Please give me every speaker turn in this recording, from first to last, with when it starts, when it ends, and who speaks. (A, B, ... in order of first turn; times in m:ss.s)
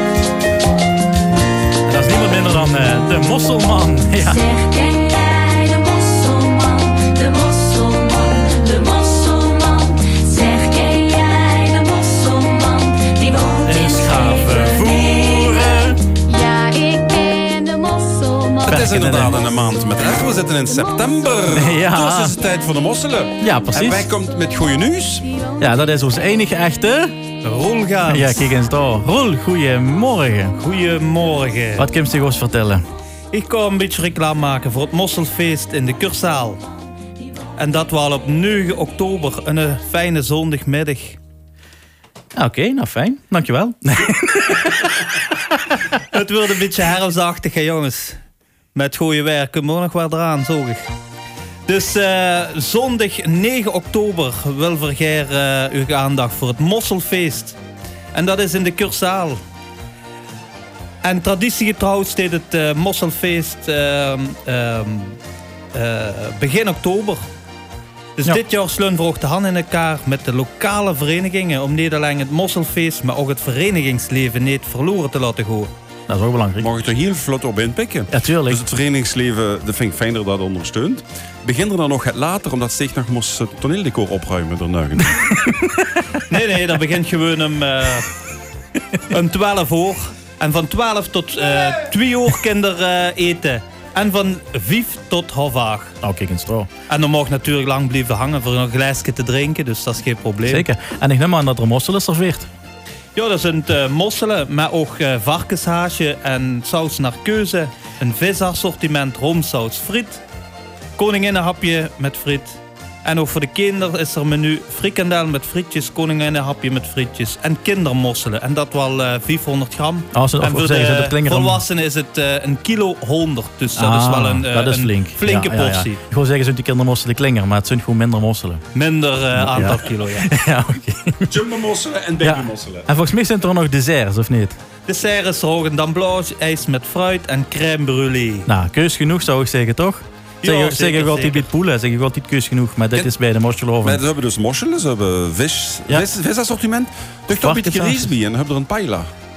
0:01.9-0:04.4 A
0:04.3-0:14.6 B
0:13.7-0:16.0 A
0:13.9-0:15.0 C
0:16.3-0:18.6 B
0:18.6-0:25.3 D
0:18.7-0:19.4 A
0:21.5-0:22.4 A
0:23.4-0:24.1 A
0:25.6-0:27.1 A
0:27.4-0:28.5 C
0:28.1-0:30.6 A
0:30.6-0:31.9 C
0:31.8-0:32.8 A
0:33.3-0:36.6 C
0:37.6-0:41.2 C
0:42.4-0:45.2 A
0:46.1-0:48.2 C
0:48.7-0:50.8 C
0:51.7-0:57.6 C
0:58.1-0:59.4 C
1:01.0-1:05.2 C
1:05.7-1:07.2 C
1:08.2-1:15.7 C
1:16.1-1:16.7 A
1:16.6-1:25.1 D
1:18.1-1:18.6 A
1:25.1-1:25.9 A
1:26.3-1:28.1 C
1:29.0-1:36.0 C
1:36.0-1:36.7 A
1:36.9-1:40.7 C
1:40.5-1:42.5 A
1:43.2-1:50.2 C
1:51.0-2:06.0 C
2:00.1-2:01.6 A
2:03.7-2:08.6 A
2:08.7-2:10.3 C
2:09.3-2:11.4 A
2:11.3-2:12.9 D
2:12.2-2:14.6 A
2:14.9-2:18.5 C
2:18.5-2:24.0 A
2:20.4-2:21.5 C
2:23.8-2:29.1 D
2:27.3-2:28.1 A